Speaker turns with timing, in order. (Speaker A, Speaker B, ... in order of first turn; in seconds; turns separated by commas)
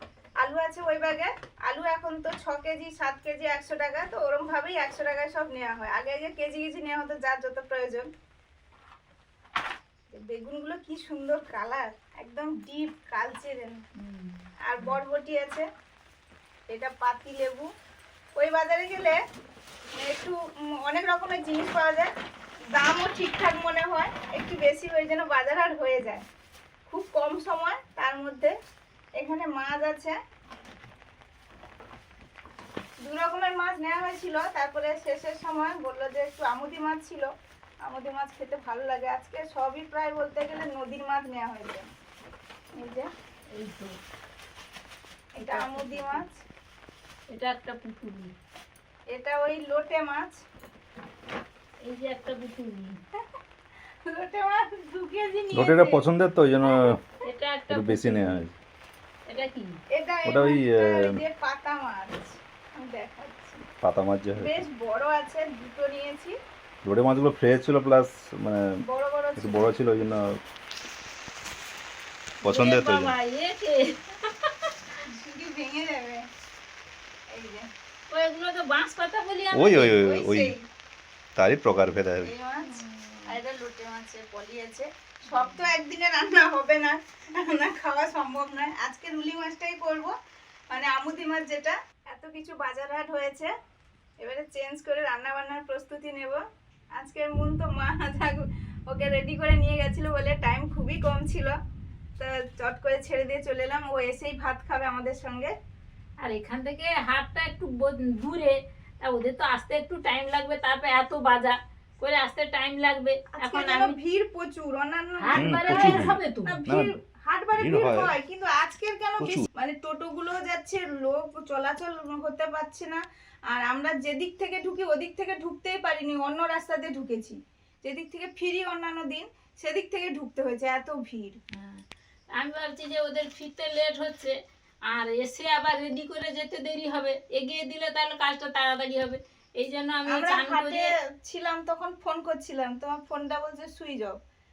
Speaker A: 0.4-8.1, Speaker A: 10.1-13.8, Speaker B: 14.0-15.0, Speaker A: 14.7-15.7, Speaker A: 16.7-17.7, Speaker A: 18.3-19.2, Speaker A: 19.9-22.1, Speaker A: 22.7-26.2, Speaker A: 26.9-28.6, Speaker A: 29.2-30.2, Speaker A: 33.0-37.3, Speaker A: 37.8-41.9, Speaker A: 42.7-43.1, Speaker B: 43.5-43.9, Speaker A: 45.4-46.4, Speaker B: 45.4-46.2, Speaker B: 47.3-48.3, Speaker A: 49.1-50.4, Speaker B: 51.8-52.9, Speaker A: 54.0-56.0, Speaker C: 55.5-57.0, Speaker B: 57.2-58.5, Speaker C: 57.7-58.5, Speaker B: 59.3-59.8, Speaker A: 59.9-63.6, Speaker C: 60.2-61.2, Speaker C: 63.8-64.6, Speaker A: 64.4-66.4, Speaker C: 66.8-68.7, Speaker A: 68.8-69.7, Speaker C: 69.4-70.4, Speaker B: 72.4-74.8, Speaker C: 72.4-73.1, Speaker A: 75.1-76.3, Speaker A: 77.3-77.7, Speaker B: 78.1-80.0, Speaker C: 79.5-80.5, Speaker A: 79.9-80.6, Speaker C: 81.3-82.3, Speaker A: 82.2-90.1, Speaker B: 82.6-83.4, Speaker B: 85.3-85.6, Speaker A: 90.7-93.5, Speaker A: 94.2-96.4, Speaker A: 96.9-101.5, Speaker A: 102.2-105.5, Speaker B: 106.2-113.9, Speaker A: 113.4-131.4, Speaker B: 115.2-116.6, Speaker C: 115.3-116.9, Speaker C: 117.6-118.1, Speaker C: 119.2-119.5, Speaker B: 131.5-131.8, Speaker B: 132.3-134.3, Speaker B: 134.9-140.9, Speaker A: 140.1-144.2